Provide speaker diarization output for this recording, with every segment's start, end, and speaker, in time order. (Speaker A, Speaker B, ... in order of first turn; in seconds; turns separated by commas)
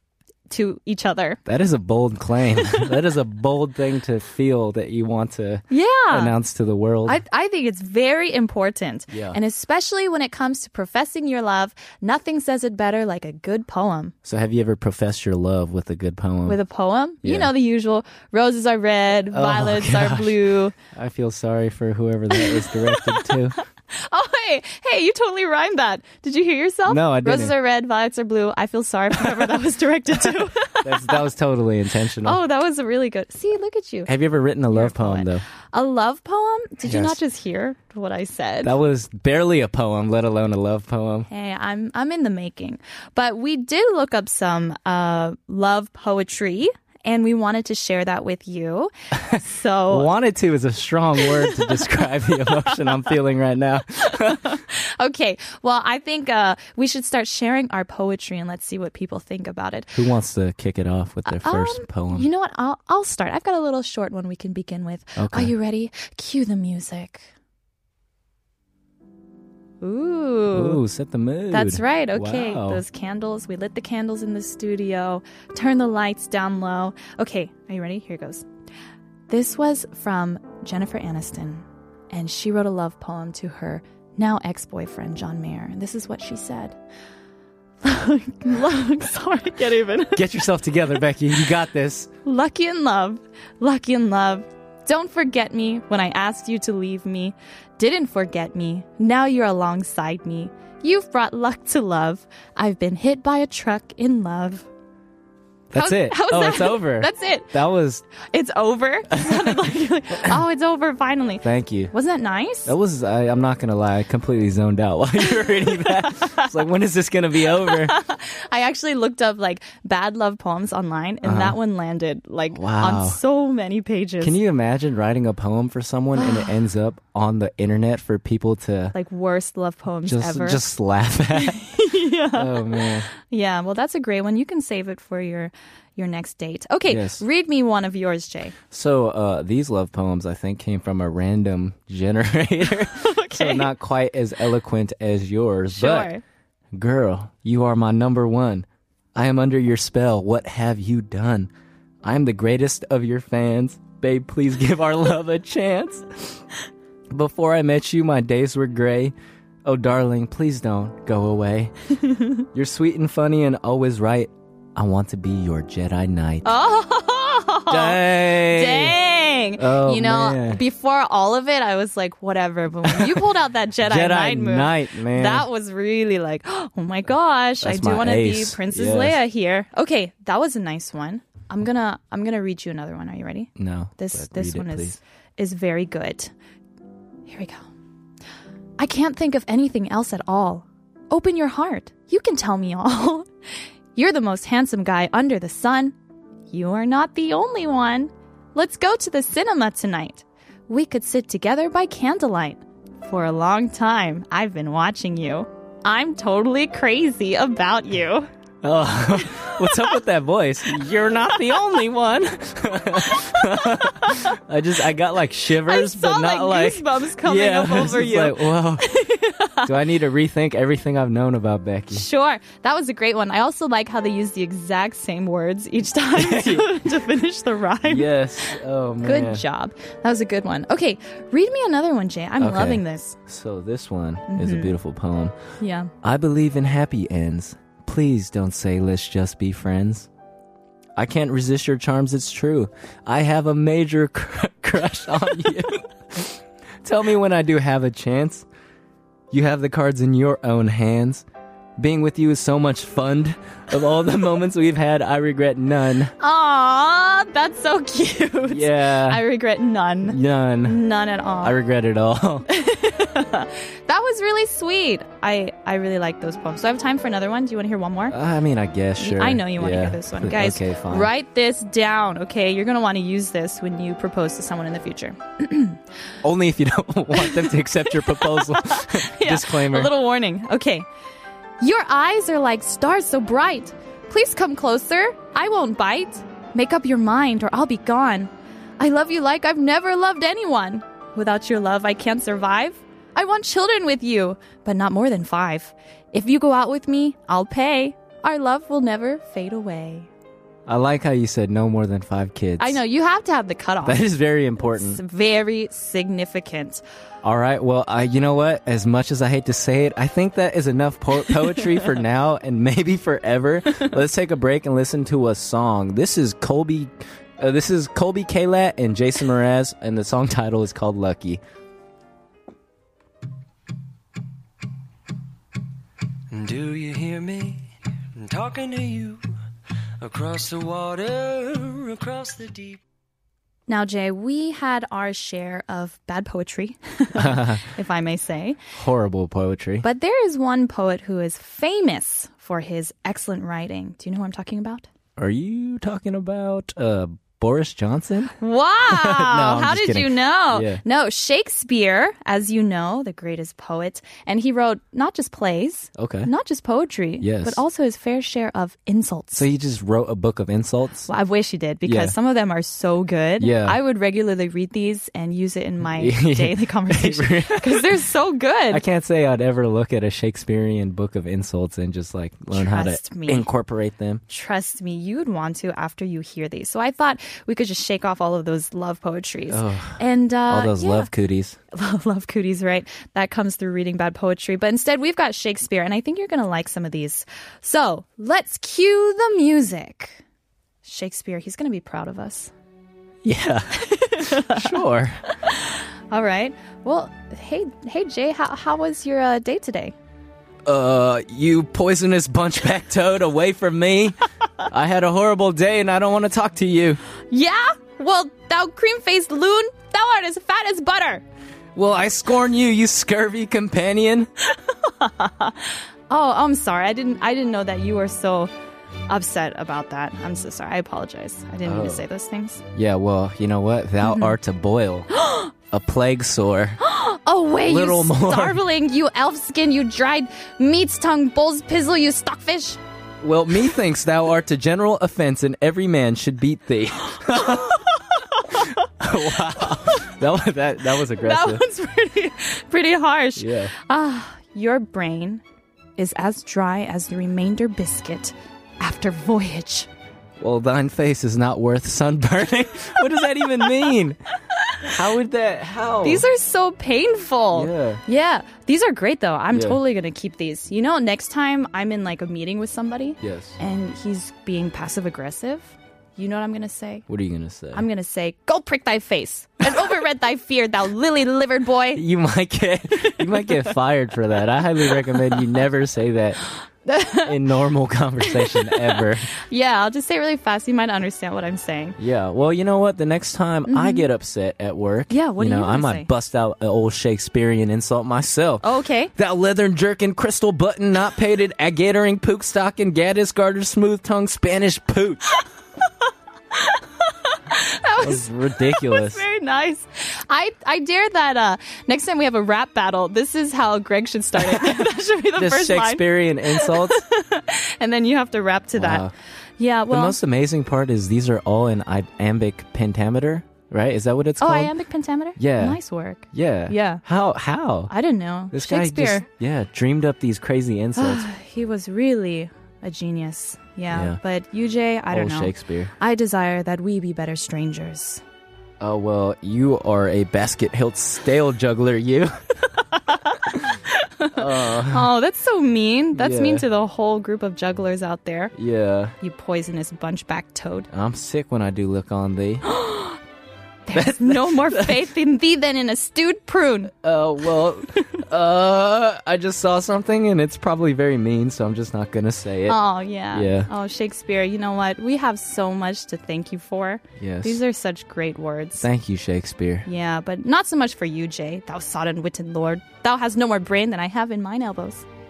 Speaker A: 0.5-1.4, Speaker B: 1.5-7.2, Speaker A: 5.7-6.3, Speaker A: 7.1-14.1, Speaker B: 9.1-9.4, Speaker B: 14.2-16.6, Speaker A: 16.5-20.8, Speaker B: 17.2-17.5, Speaker B: 19.3-23.6, Speaker A: 22.3-23.4, Speaker A: 23.9-31.2, Speaker B: 26.9-27.6, Speaker B: 30.8-32.4, Speaker A: 32.2-34.1, Speaker B: 34.1-35.4, Speaker A: 34.7-38.8, Speaker B: 36.9-37.2, Speaker B: 38.6-41.3, Speaker A: 41.3-50.1, Speaker B: 49.9-54.6, Speaker A: 51.2-51.9, Speaker A: 54.1-60.0, Speaker B: 60.0-62.3, Speaker A: 61.3-67.3, Speaker B: 65.2-65.5, Speaker A: 69.8-70.8, Speaker B: 70.5-72.8, Speaker A: 71.5-78.5, Speaker A: 79.3-86.8, Speaker A: 87.8-90.3, Speaker B: 90.2-92.1, Speaker A: 92.2-104.7, Speaker B: 105.7-108.0, Speaker A: 105.7-107.5, Speaker A: 108.2-112.7, Speaker B: 109.2-109.6, Speaker B: 111.4-111.9, Speaker B: 112.7-118.0, Speaker A: 115.4-116.5, Speaker A: 117.6-124.4, Speaker B: 121.2-121.6, Speaker B: 122.5-123.2, Speaker B: 124.2-128.9, Speaker A: 126.2-126.6, Speaker A: 128.9-130.7, Speaker B: 130.1-133.1, Speaker A: 131.3-138.6, Speaker B: 136.9-137.2, Speaker B: 138.7-146.1, Speaker A: 142.9-143.7, Speaker A: 145.7-146.2, Speaker B: 146.7-151.5, Speaker B: 152.0-156.4, Speaker B: 157.1-161.7, Speaker A: 162.1-162.4, Speaker B: 162.5-166.5, Speaker A: 166.4-186.3, Speaker B: 167.7-169.0, Speaker B: 169.6-170.6, Speaker B: 172.8-173.2, Speaker B: 173.8-175.5, Speaker B: 177.6-179.2, Speaker B: 183.6-185.0, Speaker A: 187.3-187.7, Speaker A: 188.8-193.3, Speaker A: 193.9-196.0, Speaker A: 196.5-208.3, Speaker B: 208.6-218.9, Speaker A: 209.4-209.8, Speaker A: 213.2-214.3, Speaker A: 215.6-219.7, Speaker B: 219.7-222.1, Speaker A: 221.9-233.2, Speaker B: 226.1-226.8, Speaker B: 227.8-229.4, Speaker B: 232.4-235.3, Speaker A: 234.3-234.7, Speaker A: 235.6-235.9, Speaker B: 236.0-240.1, Speaker B: 241.0-248.5, Speaker B: 249.3-251.2, Speaker B: 251.8-256.1, Speaker A: 256.2-261.6, Speaker B: 258.5-259.2, Speaker B: 260.1-260.9, Speaker B: 261.4-262.5, Speaker A: 262.5-268.2, Speaker B: 268.1-271.1, Speaker A: 269.0-275.8, Speaker B: 276.2-279.9, Speaker A: 277.1-280.9, Speaker A: 281.6-300.1, Speaker B: 300.7-302.8, Speaker A: 302.6-304.1, Speaker B: 303.8-305.0, Speaker A: 304.6-306.8, Speaker B: 307.2-321.4, Speaker C: 326.3-329.3, Speaker C: 330.0-332.8, Speaker A: 333.7-338.6, Speaker B: 337.2-337.6, Speaker B: 338.8-339.9, Speaker A: 339.8-344.9, Speaker B: 345.2-348.4, Speaker A: 348.4-359.5, Speaker B: 348.9-350.8, Speaker B: 356.0-356.3, Speaker B: 357.2-357.6, Speaker B: 359.3-361.1, Speaker A: 361.1-368.8, Speaker B: 361.9-362.1, Speaker B: 363.4-363.8, Speaker B: 365.9-368.0, Speaker B: 368.7-374.2, Speaker A: 372.5-373.5, Speaker A: 374.3-381.1, Speaker B: 379.5-381.6, Speaker A: 381.7-390.2, Speaker A: 390.8-392.5, Speaker B: 393.2-395.2, Speaker A: 393.8-394.8, Speaker A: 395.4-399.9, Speaker B: 400.6-407.0, Speaker A: 407.3-411.2, Speaker B: 411.8-414.3, Speaker A: 414.5-418.5, Speaker A: 419.1-422.6, Speaker B: 421.6-422.1, Speaker B: 422.7-425.1, Speaker A: 424.0-424.4, Speaker A: 425.1-425.5, Speaker B: 425.7-426.8, Speaker A: 426.8-432.8, Speaker B: 427.6-428.6, Speaker B: 433.2-437.9, Speaker A: 437.3-438.7, Speaker B: 438.5-441.6, Speaker A: 441.1-445.4, Speaker B: 443.4-443.7, Speaker A: 446.0-449.9, Speaker B: 450.4-454.2, Speaker B: 454.8-456.2, Speaker A: 456.0-467.1, Speaker B: 457.5-458.0, Speaker B: 459.5-459.8, Speaker B: 463.2-463.6, Speaker B: 467.1-467.9, Speaker A: 467.7-472.0, Speaker B: 471.9-476.4, Speaker A: 473.0-473.7, Speaker A: 475.1-475.4, Speaker A: 476.9-477.4, Speaker B: 477.2-479.3, Speaker A: 478.2-482.0, Speaker B: 482.0-495.4, Speaker A: 483.7-484.1, Speaker A: 485.1-486.1, Speaker A: 488.6-489.1, Speaker A: 496.5-509.1, Speaker B: 498.0-499.2, Speaker B: 504.4-504.8, Speaker B: 505.4-507.0, Speaker B: 508.8-509.1, Speaker A: 509.6-510.2, Speaker B: 509.9-514.7, Speaker A: 514.4-517.0, Speaker B: 515.4-515.8, Speaker B: 516.3-517.9, Speaker A: 517.9-519.2, Speaker B: 518.5-521.3, Speaker A: 521.0-528.2, Speaker B: 523.9-524.2, Speaker B: 525.1-525.9, Speaker B: 528.8-532.4, Speaker A: 533.0-538.5, Speaker B: 534.4-535.1, Speaker B: 536.2-536.7, Speaker B: 538.5-539.1, Speaker A: 539.2-540.9, Speaker B: 540.9-542.6, Speaker A: 542.6-543.2, Speaker A: 543.9-546.9, Speaker B: 543.9-545.1, Speaker B: 547.0-552.8, Speaker A: 552.7-558.9, Speaker B: 553.3-553.7, Speaker B: 557.2-557.6, Speaker B: 558.8-559.9, Speaker A: 559.9-565.1